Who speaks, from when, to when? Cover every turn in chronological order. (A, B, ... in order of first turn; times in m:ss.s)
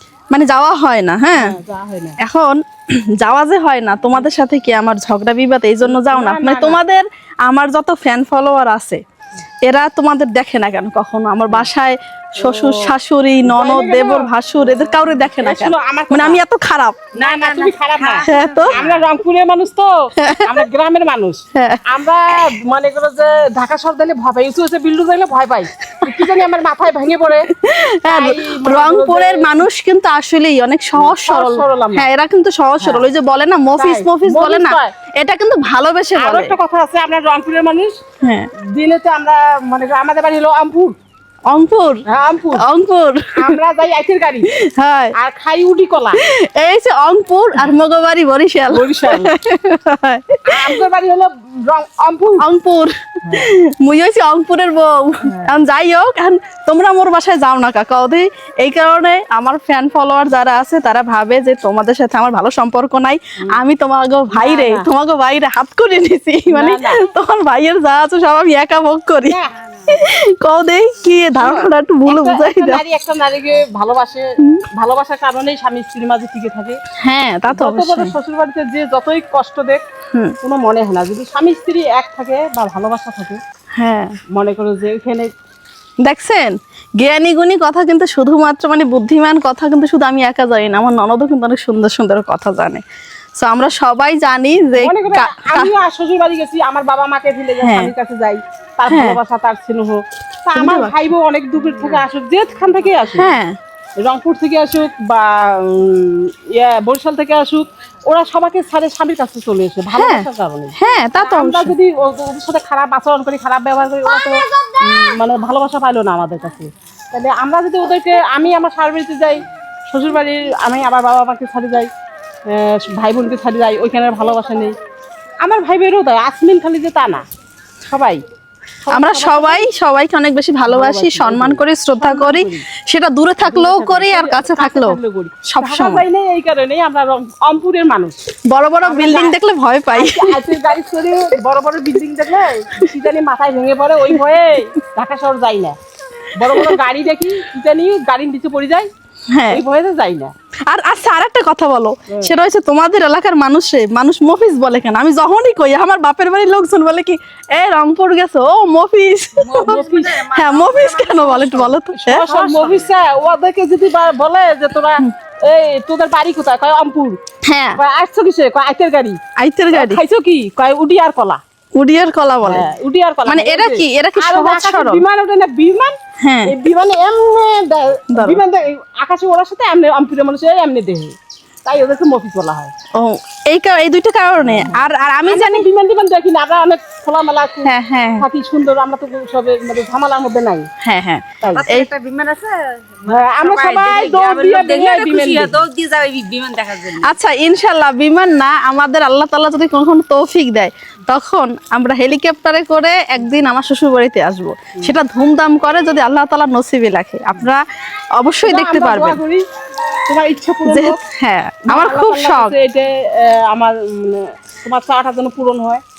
0:00.3-0:01.6 A
0:01.3-0:02.2 B
0:02.2-0:09.0 A
0:05.8-0:06.8 B
0:09.6-0:17.2 A
0:12.4-0:12.9 B
0:13.4-0:16.4 B
0:17.2-0:27.5 B
0:17.2-0:19.0 C
0:18.2-0:18.8 A
0:20.2-0:20.5 A
0:21.6-0:21.8 A
0:25.9-0:26.3 A
0:27.6-0:36.5 A
0:28.0-0:29.6 B
0:31.0-0:32.1 B
0:32.8-0:33.1 B
0:33.8-0:34.9 B
0:36.2-0:37.9 B
0:38.2-0:38.5 A
0:38.7-0:41.0 B
0:41.5-0:42.0 A
0:42.1-0:42.7 B
0:42.6-0:43.6 A
0:43.4-0:44.5 B
0:44.5-0:45.1 A
0:45.1-0:46.2 B
0:46.2-0:50.8 A
0:48.7-0:49.3 B
0:50.5-0:52.5 B
0:52.4-1:09.4 A
0:53.2-0:53.5 B
0:55.3-0:55.6 B
1:04.3-1:04.9 B
1:06.5-1:07.1 B
1:09.3-1:10.0 B
1:09.9-1:12.8 A
1:11.4-1:16.8 B
1:17.0-1:18.1 A
1:17.5-1:19.8 B
1:20.4-1:23.4 B
1:23.8-1:24.2 A
1:24.3-1:25.3 B
1:26.0-1:32.8 A
1:33.4-1:35.7 A
1:34.8-1:43.4 B
1:37.6-1:37.9 A
1:38.9-1:39.2 A
1:40.6-1:40.9 A
1:43.2-1:43.6 A
1:44.0-2:01.9 B
1:50.0-1:50.3 A
1:50.8-1:51.7 A
2:02.5-2:04.8 B
2:05.4-2:07.2 B
2:07.9-2:08.2 B
2:08.8-2:09.7 B
2:08.9-2:16.0 A
2:10.6-2:12.7 B
2:13.4-2:18.2 B
2:18.5-2:20.5 A
2:18.8-2:19.4 B
2:19.9-2:25.8 B
2:26.4-2:28.9 B
2:26.5-2:26.8 A
2:29.3-2:29.6 A
2:29.5-2:30.3 B
2:30.7-2:42.3 A
2:39.4-2:42.9 C
2:39.5-2:40.3 B
2:41.9-2:47.2 B
2:47.4-2:47.8 A
2:47.8-2:49.2 B
2:49.4-2:50.0 A
2:49.7-2:51.4 B
2:51.8-2:52.7 A
2:52.4-3:02.7 B
2:53.3-2:55.0 A
2:56.2-2:56.5 A
2:58.1-2:58.4 A
3:03.0-3:05.7 A
3:04.4-3:10.7 B
3:07.6-3:08.3 A
3:10.8-3:11.9 A
3:11.4-3:11.7 B
3:11.5-3:17.1 C
3:13.1-3:15.6 B
3:16.9-3:27.6 A
3:28.2-3:29.2 A
3:28.4-3:29.4 B
3:30.1-3:31.0 B
3:30.7-3:32.5 A
3:31.7-3:35.8 B